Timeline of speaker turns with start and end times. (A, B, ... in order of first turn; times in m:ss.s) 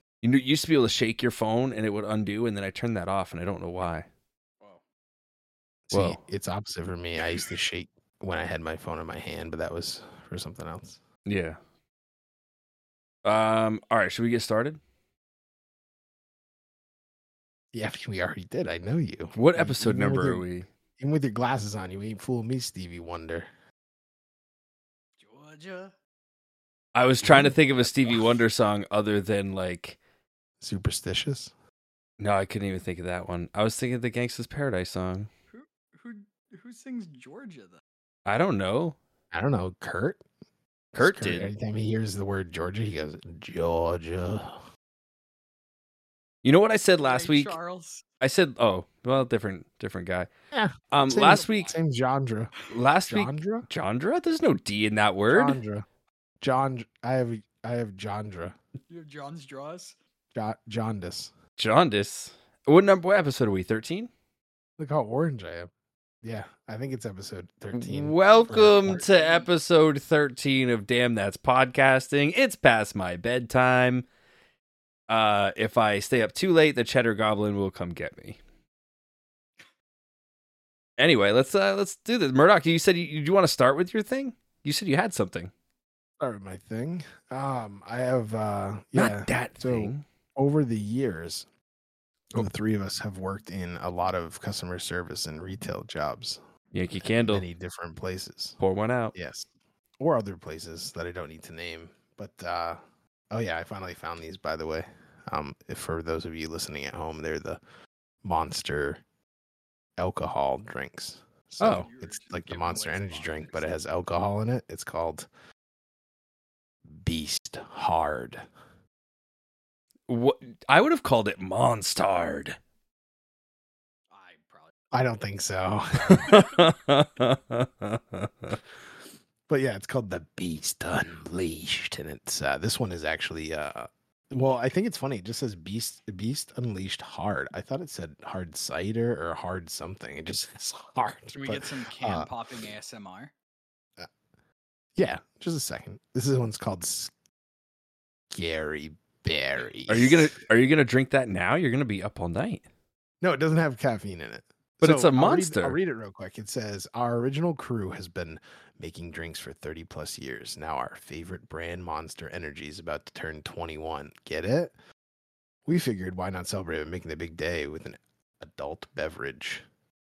0:00.2-0:04.1 A
0:05.9-0:11.0 B
0:05.9-0:06.2 A
0:11.2-0:11.6 A
0:13.2-0:14.8 A
0:17.7-0:20.4 B
0:19.3-0:20.7 A
0:21.0-0:23.5 B
0:25.2-0:25.9 C
0:26.9-0:30.0 A
0:27.2-0:27.6 B
0:30.6-0:31.5 B
0:32.2-0:35.3 A
0:35.5-0:37.8 C
0:38.2-0:39.0 A
0:39.3-0:40.2 B
0:40.9-0:44.6 B
0:41.0-0:41.5 A
0:46.4-0:47.6 A
0:47.0-0:48.0 C
0:48.2-0:50.3 A
0:50.5-0:52.5 B
0:50.9-0:51.7 A
0:51.1-0:51.8 C
0:52.7-0:55.6 A
0:53.0-0:53.6 B
0:55.3-0:55.8 B
0:56.4-0:58.6 B
0:58.9-1:00.0 C
1:00.3-1:01.3 B
1:01.6-1:04.1 A
1:04.8-1:05.7 B
1:06.2-1:09.0 B
1:07.7-1:14.0 A
1:08.2-1:09.5 C
1:15.1-1:18.4 A
1:21.0-1:25.5 A
1:26.2-1:31.5 B
1:28.9-1:30.0 A
1:32.3-1:36.4 B
1:36.7-1:37.4 A
1:37.0-1:38.6 B
1:38.6-1:39.1 A
1:39.1-1:39.5 B
1:40.0-1:42.8 B
1:43.3-1:47.6 B
1:48.2-1:49.0 B
1:50.0-1:55.3 B
1:51.6-1:51.9 A
1:51.6-1:53.8 C
1:56.9-1:58.4 B
2:00.1-2:02.6 A
2:04.1-2:04.7 C
2:04.9-2:06.4 B
2:06.0-2:08.6 A
2:09.5-2:22.6 B
2:21.3-2:23.3 C
2:25.0-2:27.1 B
2:28.3-2:30.3 B
2:29.9-2:32.6 A
2:33.2-2:44.7 B
2:34.8-2:35.8 A
2:45.6-2:49.6 B